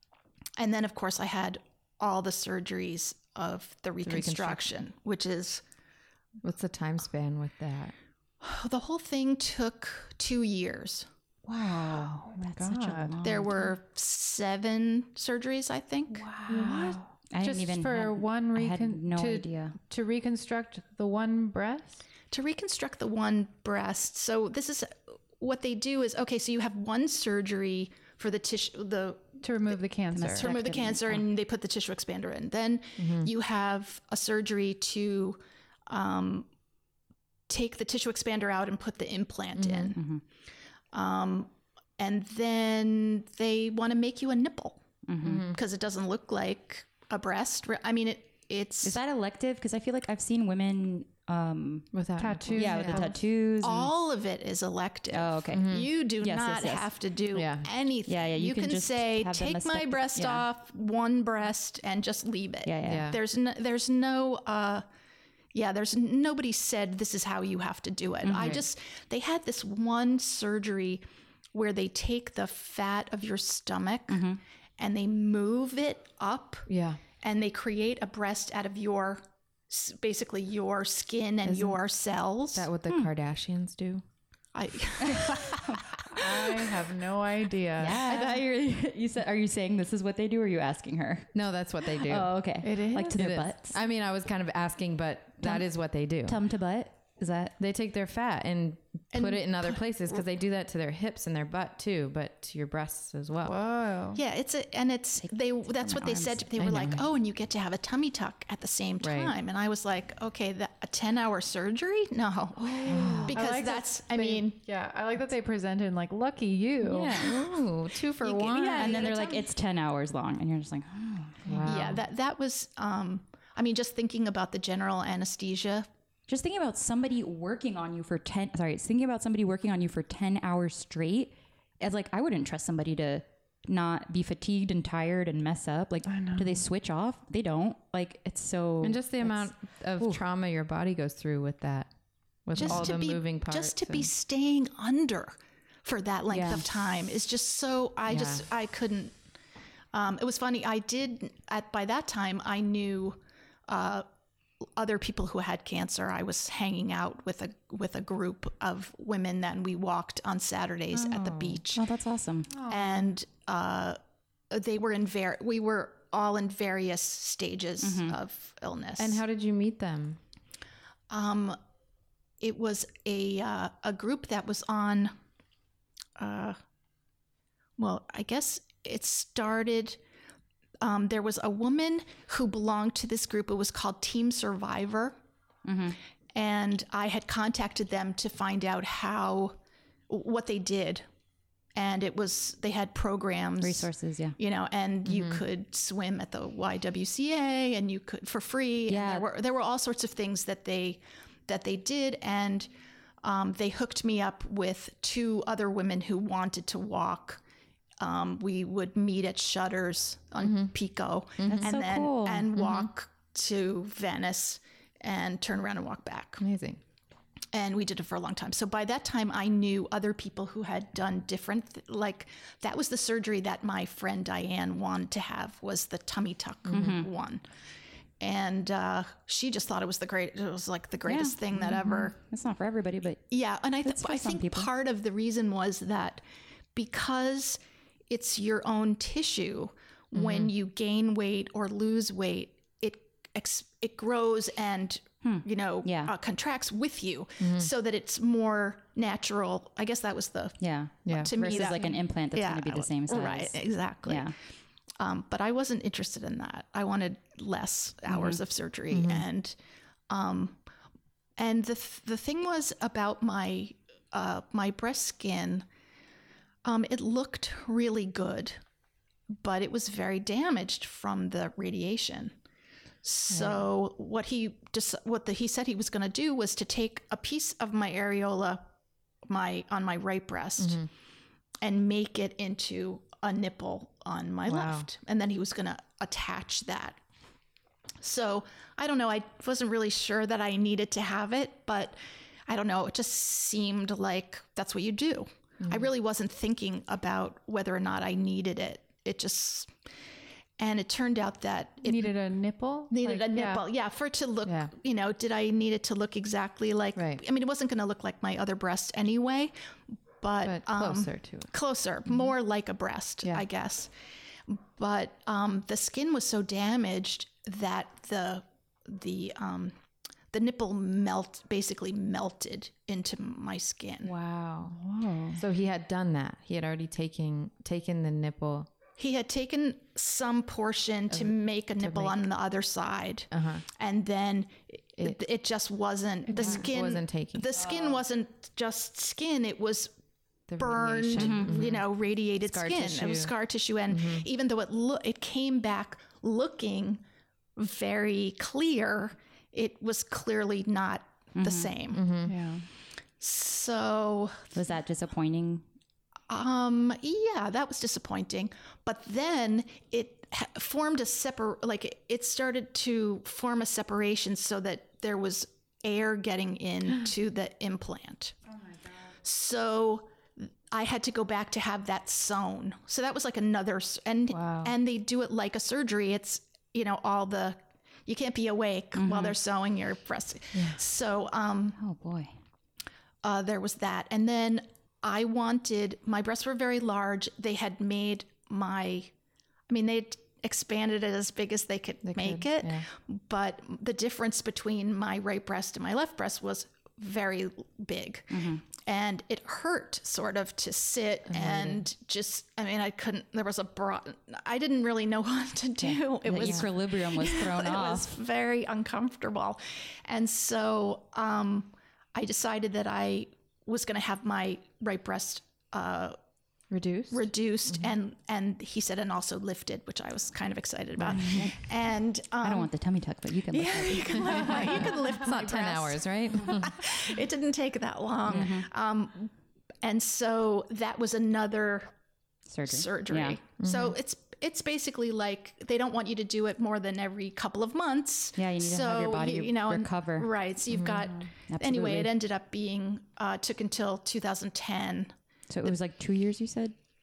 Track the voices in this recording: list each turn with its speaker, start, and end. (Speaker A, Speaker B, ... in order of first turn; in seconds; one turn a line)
Speaker A: 0.6-5.6
Speaker B: 4.0-4.6
Speaker B: 6.4-7.9
Speaker A: 8.4-11.1
Speaker C: 11.4-13.2
Speaker D: 12.3-13.5
Speaker A: 13.2-16.3
Speaker D: 16.1-19.8
Speaker C: 16.5-22.0
Speaker A: 22.3-29.4
Speaker C: 29.4-30.5
Speaker D: 30.1-31.2
Speaker A: 30.3-36.5
Speaker B: 33.0-33.3
Speaker A: 37.5-40.0
Speaker B: 39.5-39.9
Speaker D: 40.0-40.2
Speaker A: 40.9-44.8
Speaker D: 45.1-45.5
Speaker B: 45.2-45.6
Speaker A: 45.5-49.0
Speaker D: 48.8-51.9
Speaker B: 51.9-53.1
Speaker C: 52.2-53.2
Speaker D: 52.5-53.9
Speaker A: 53.6-64.8
Speaker D: 55.1-56.9
Speaker B: 55.5-55.9
Speaker B: 57.3-57.7
Speaker D: 58.0-60.5
Speaker D: 62.6-63.0
Speaker B: 62.8-63.2
Speaker A: 65.5-74.3
Speaker D: 68.2-68.6
Speaker B: 68.3-68.6
Speaker D: 74.1-74.4
Speaker A: 74.8-76.7
Speaker B: 76.7-77.0
Speaker A: 77.2-82.7
Speaker B: 81.4-81.8
Speaker B: 82.5-84.0
Speaker A: 84.5-86.2
Speaker D: 85.1-85.9
Speaker C: 86.2-88.2
Speaker D: 87.8-93.8
Speaker A: 87.9-88.3
Speaker B: 91.3-92.5
Speaker C: 92.6-93.2
Speaker B: 93.1-96.4
Speaker D: 95.4-95.7
Speaker D: 96.2-97.5
Speaker B: 97.6-103.5
Speaker A: 99.1-100.2
Speaker C: 103.4-104.2
Speaker A: 104.1-114.6
Speaker D: 105.2-107.0
Speaker B: 106.6-107.0
Speaker B: 109.0-109.3
Speaker D: 112.6-113.3
Speaker C: 112.8-117.2
Speaker B: 112.8-113.4
Speaker B: 116.8-119.1
Speaker D: 117.0-117.3
Speaker A: 117.9-119.4
Speaker D: 118.7-121.8
Speaker B: 121.4-122.0
Speaker A: 121.7-125.9
Speaker D: 126.3-140.2
Speaker C: 136.1-136.7
Speaker B: 138.8-141.9
Speaker B: 142.4-144.1
Speaker A: 142.5-149.1
Speaker D: 142.6-142.9
Speaker D: 146.3-146.7
Speaker B: 148.1-148.4
Speaker A: 149.9-154.1
Speaker A: 154.8-161.9
Speaker D: 161.2-162.5
Speaker C: 162.5-163.0
Speaker A: 162.7-164.0
Speaker A: 164.5-169.2
Speaker D: 167.8-168.1
Speaker B: 169.0-170.2
Speaker A: 171.1-171.6
Speaker A: 172.4-175.1
Speaker A: 176.2-176.6
Speaker A: 177.8-180.0
Speaker A: 180.8-185.2
Speaker D: 185.6-186.0
Speaker A: 186.3-189.6
Speaker A: 190.1-191.0
Speaker A: 191.7-202.7
Speaker D: 193.6-194.3
Speaker B: 195.1-195.4
Speaker D: 198.9-199.3
Speaker A: 203.2-207.4
Speaker A: 208.0-216.4
Speaker B: 210.4-210.7
Speaker B: 211.4-211.8
Speaker D: 211.5-212.9
Speaker B: 216.4-216.8
Speaker A: 217.5-227.4
Speaker D: 226.7-227.1
Speaker B: 226.7-227.0
Speaker A: 228.2-232.1
Speaker D: 231.1-233.3
Speaker A: 233.3-236.2
Speaker D: 233.8-234.7
Speaker A: 236.7-254.3
Speaker D: 240.1-240.5
Speaker D: 245.2-246.1
Speaker B: 247.4-247.7
Speaker D: 250.6-254.4
Speaker B: 251.1-251.3
Speaker A: 255.0-259.6
Speaker D: 258.1-258.4
Speaker B: 258.9-259.2
Speaker A: 260.1-260.6
Speaker A: 261.4-265.6
Speaker A: 266.6-268.6
Speaker A: 269.3-272.3
Speaker A: 273.0-278.6
Speaker B: 273.3-273.6
Speaker A: 279.3-280.8
Speaker B: 280.6-280.9
Speaker A: 281.6-287.0
Speaker B: 284.4-284.9
Speaker A: 288.0-292.0
Speaker A: 292.5-299.7
Speaker B: 295.6-295.9
Speaker A: 300.6-302.1
Speaker C: 301.8-303.6
Speaker A: 302.9-309.5
Speaker B: 304.4-304.7
Speaker B: 306.9-307.2
Speaker A: 310.2-313.9
Speaker B: 310.4-311.5
Speaker A: 314.5-319.8
Speaker A: 320.3-324.1
Speaker B: 324.0-324.8
Speaker C: 324.6-325.4
Speaker B: 325.3-328.7
Speaker A: 329.0-339.9
Speaker B: 331.1-332.2
Speaker B: 333.3-333.6
Speaker C: 336.3-336.7
Speaker B: 336.4-337.5
Speaker B: 340.5-343.3
Speaker A: 340.6-347.0
Speaker D: 341.1-341.6
Speaker B: 343.9-344.2
Speaker A: 347.6-352.0
Speaker D: 351.4-351.7
Speaker B: 351.9-352.3
Speaker C: 352.2-352.7
Speaker A: 353.2-354.5
Speaker D: 354.5-355.6
Speaker A: 356.3-368.4
Speaker A: 369.2-381.8
Speaker B: 374.3-374.7
Speaker D: 378.9-379.3
Speaker B: 380.5-380.8
Speaker D: 381.8-382.3
Speaker A: 383.2-389.1
Speaker A: 389.7-416.2
Speaker B: 392.0-392.9
Speaker D: 398.3-398.6
Speaker B: 401.3-401.8
Speaker D: 406.2-408.1
Speaker B: 406.4-406.6
Speaker B: 416.7-417.9
Speaker A: 417.1-422.7
Speaker B: 421.0-421.4
Speaker D: 421.1-421.7
Speaker D: 422.4-425.0
Speaker A: 423.5-431.9
Speaker B: 424.6-426.8
Speaker D: 428.3-428.7
Speaker D: 432.5-433.4
Speaker A: 432.7-445.1
Speaker B: 433.6-433.9
Speaker D: 438.4-440.3
Speaker B: 440.7-441.1
Speaker D: 441.5-442.1
Speaker D: 445.5-446.8